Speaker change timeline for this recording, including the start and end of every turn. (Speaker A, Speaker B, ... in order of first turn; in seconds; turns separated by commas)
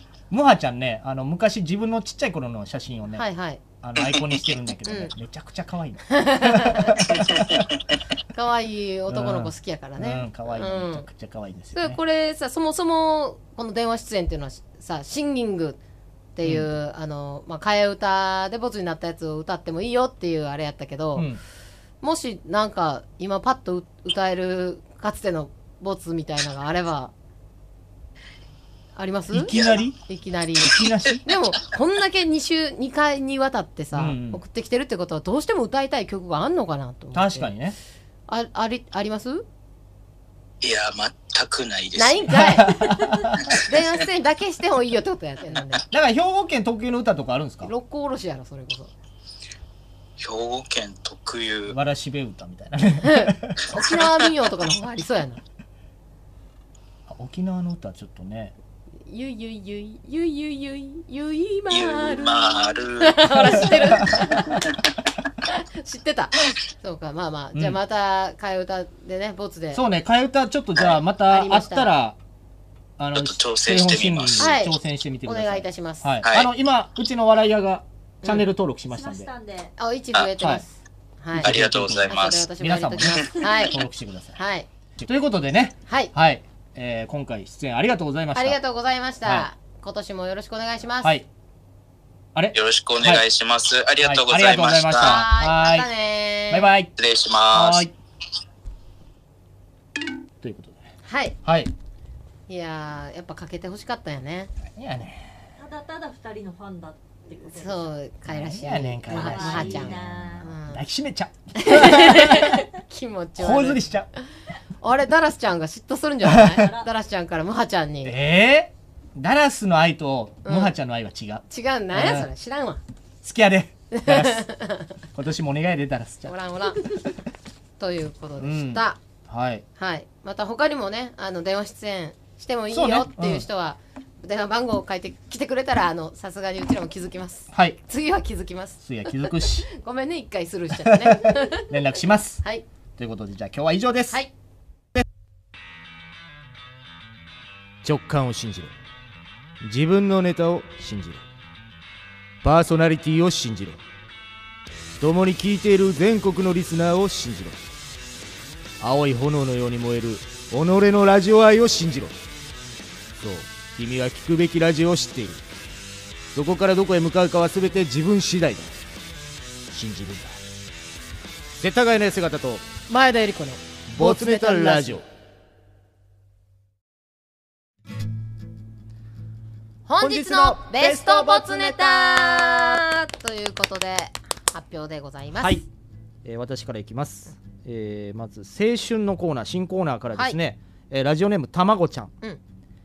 Speaker A: 0.3-3.2, Speaker B: 3.1-3.6, Speaker A: 3.8-7.7, Speaker B: 4.8-5.1, Speaker B: 6.1-7.1, Speaker C: 7.3-7.6, Speaker B: 8.3-11.1, Speaker A: 9.1-12.0, Speaker B: 11.7-15.8, Speaker B: 16.4-21.3, Speaker A: 16.4-16.7, Speaker A: 21.1-21.4, Speaker B: 22.0-27.1, Speaker B: 28.9-29.5, Speaker A: 29.3-30.0, Speaker C: 29.5-29.8, Speaker B: 30.1-37.5, Speaker A: 30.6-31.2, Speaker A: 33.9-34.4, Speaker A: 37.1-37.8, Speaker B: 38.3-39.4, Speaker C: 40.6-42.3, Speaker B: 42.0-42.9, Speaker A: 42.3-43.5, Speaker B: 43.5-45.8, Speaker A: 45.9-47.7, Speaker B: 47.6-48.9, Speaker C: 50.2-51.7, Speaker A: 51.7-53.6, Speaker B: 53.0-55.4, Speaker A: 57.1-58.5, Speaker B: 59.0-64.7, Speaker C: 61.7-63.6, Speaker A: 63.4-64.4, Speaker B: 65.4-69.8, Speaker A: 69.7-72.2, Speaker B: 71.2-71.9, Speaker A: 73.0-79.3, Speaker C: 73.1-74.5, Speaker B: 74.4-76.2, Speaker C: 76.2-76.5, Speaker B: 78.2-78.5, Speaker D: 78.9-79.7, Speaker B: 79.8-83.8, Speaker A: 80.4-80.6, Speaker A: 81.3-84.3, Speaker C: 81.4-82.5, Speaker B: 84.3-84.7, Speaker A: 85.0-88.6, Speaker B: 88.3-91.1, Speaker A: 89.2-89.5, Speaker A: 92.3-93.2, Speaker C: 92.5-95.2, Speaker A: 94.0-95.9, Speaker B: 95.0-96.7, Speaker A: 96.5-96.9, Speaker C: 97.0-97.8, Speaker A: 97.5-97.9, Speaker A: 100.4-100.9, Speaker B: 101.0-101.4, Speaker A: 101.4-101.7, Speaker B: 102.5-104.5, Speaker A: 104.7-105.5, Speaker D: 105.6-107.8, Speaker B: 107.5-110.8, Speaker A: 108.3-112.7, Speaker D: 109.1-110.4, Speaker B: 111.5-113.8, Speaker A: 113.4-114.1, Speaker B: 114.8-118.2, Speaker A: 116.2-116.8, Speaker A: 118.0-122.3, Speaker B: 120.4-120.7, Speaker B: 121.5-122.8, Speaker A: 123.2-124.5, Speaker B: 123.9-124.9, Speaker A: 125.1-126.3, Speaker B: 126.2-127.2, Speaker B: 127.8-129.0, Speaker A: 128.4-129.6, Speaker B: 129.8-141.7, Speaker A: 132.7-133.4, Speaker A: 137.5-137.8, Speaker A: 138.8-139.7, Speaker A: 140.8-142.4, Speaker A: 143.0-144.2, Speaker A: 147.8-148.7, Speaker A: 149.6-151.2, Speaker A: 152.4-153.8, Speaker A: 155.0-157.6, Speaker A: 158.8-162.2, Speaker A: 163.2-165.4, Speaker A: 166.3-168.8, Speaker A: 169.7-170.4, Speaker A: 171.6-172.7, Speaker B: 172.9-175.0, Speaker A: 173.9-175.1, Speaker B: 179.9-185.6, Speaker A: 180.0-182.8, Speaker A: 185.4-185.6, Speaker A: 186.2-192.1, Speaker B: 190.1-190.4